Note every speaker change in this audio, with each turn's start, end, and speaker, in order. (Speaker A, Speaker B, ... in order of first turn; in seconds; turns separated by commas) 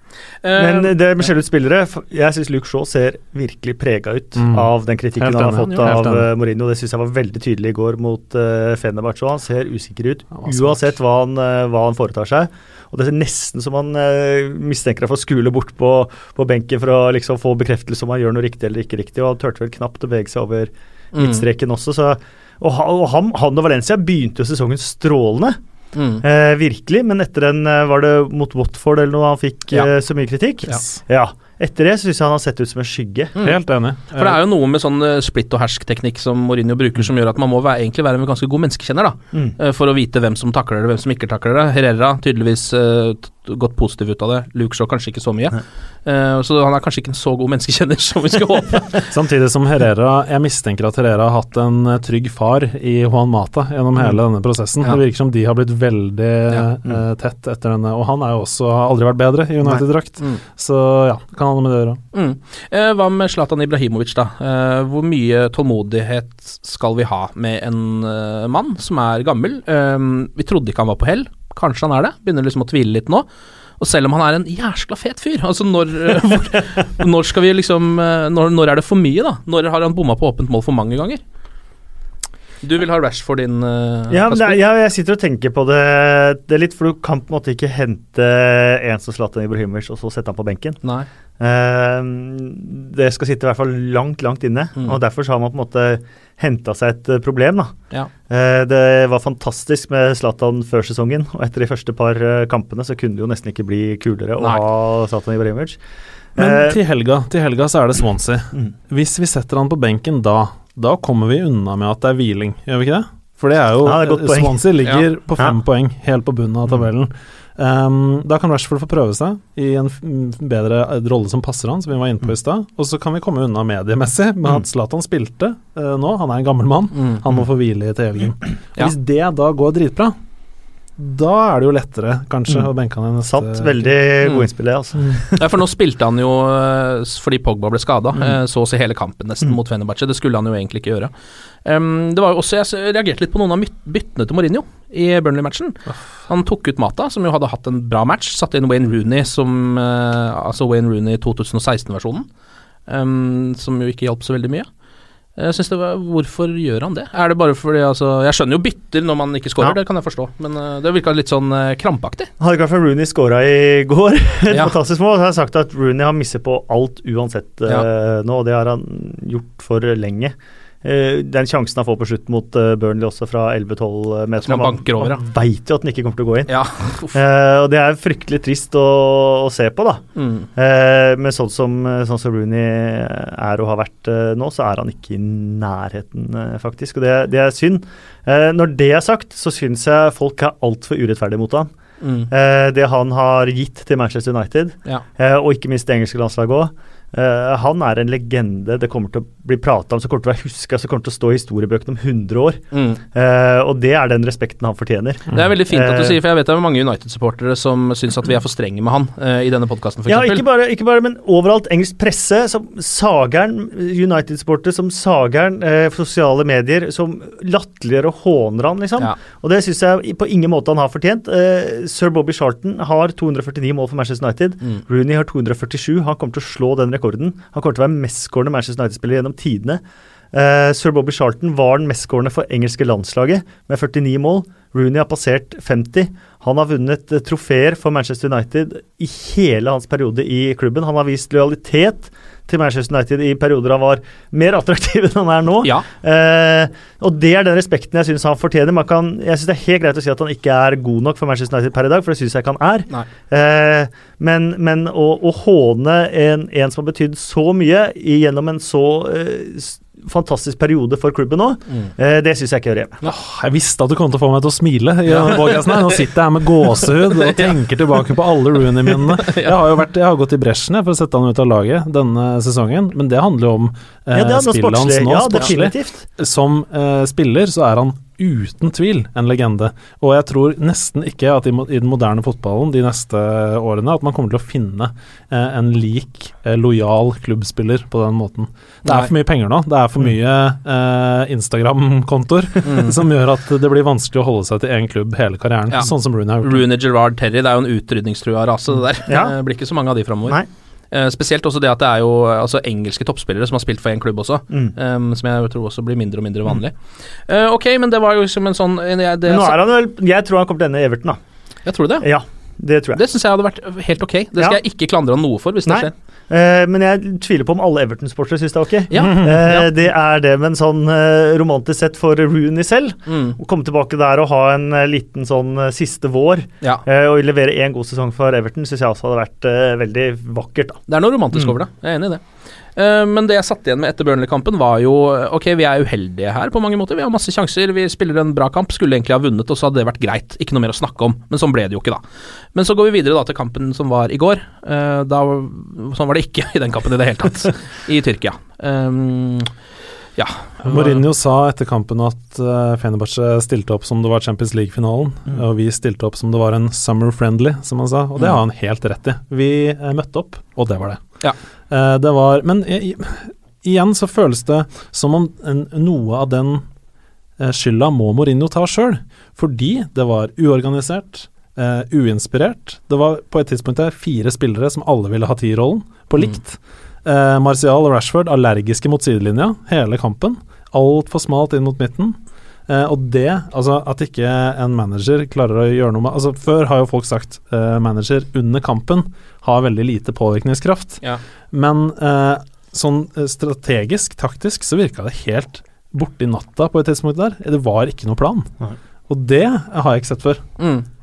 Speaker A: 0.4-1.2, Speaker B: 0.6-25.6, Speaker C: 4.4-6.3, Speaker C: 10.4-10.9, Speaker A: 21.1-21.4, Speaker A: 25.9-26.2, Speaker B: 26.2-33.4, Speaker C: 33.4-34.4, Speaker A: 34.1-49.1, Speaker C: 49.1-62.0, Speaker A: 62.1-73.3, Speaker A: 73.8-81.2, Speaker A: 82.6-84.6, Speaker B: 84.1-90.8, Speaker A: 90.8-91.1, Speaker B: 91.4-97.7, Speaker B: 98.3-105.8, Speaker B: 106.4-106.8, Speaker C: 106.4-130.2, Speaker B: 113.8-114.7, Speaker C: 131.0-133.9, Speaker B: 133.2-135.4, Speaker A: 135.4-141.1, Speaker A: 141.7-152.3, Speaker A: 152.9-154.7, Speaker A: 155.4-162.3, Speaker B: 162.4-176.5, Speaker A: 174.4-175.2, Speaker A: 176.5-177.2, Speaker B: 177.1-180.0, Speaker A: 180.2-180.5, Speaker B: 180.6-191.7, Speaker A: 192.0-192.3, Speaker B: 192.3-202.6, Speaker A: 202.7-203.0, Speaker B: 203.1-206.2, Speaker A: 205.3-210.4, Speaker B: 210.1-229.8, Speaker B: 230.3-263.0, Speaker C: 263.0-296.6, Speaker A: 265.1-266.0, Speaker A: 266.8-267.5, Speaker A: 268.9-269.6, Speaker B: 274.1-276.1, Speaker A: 288.9-289.1, Speaker A: 292.7-292.9, Speaker A: 296.4-300.4, Speaker B: 299.1-299.4, Speaker A: 300.9-306.8, Speaker A: 307.3-309.6, Speaker B: 309.3-311.2, Speaker A: 311.6-312.1, Speaker B: 312.0-313.0, Speaker A: 312.9-315.9, Speaker B: 315.6-330.8, Speaker A: 318.9-319.7, Speaker A: 323.1-323.4, Speaker A: 330.9-332.2, Speaker A: 332.8-342.0, Speaker A: 342.5-349.5, Speaker A: 350.2-351.1, Speaker C: 350.6-361.0, Speaker C: 361.7-366.6, Speaker C: 367.4-398.5, Speaker C: 399.1-400.4, Speaker A: 400.6-400.9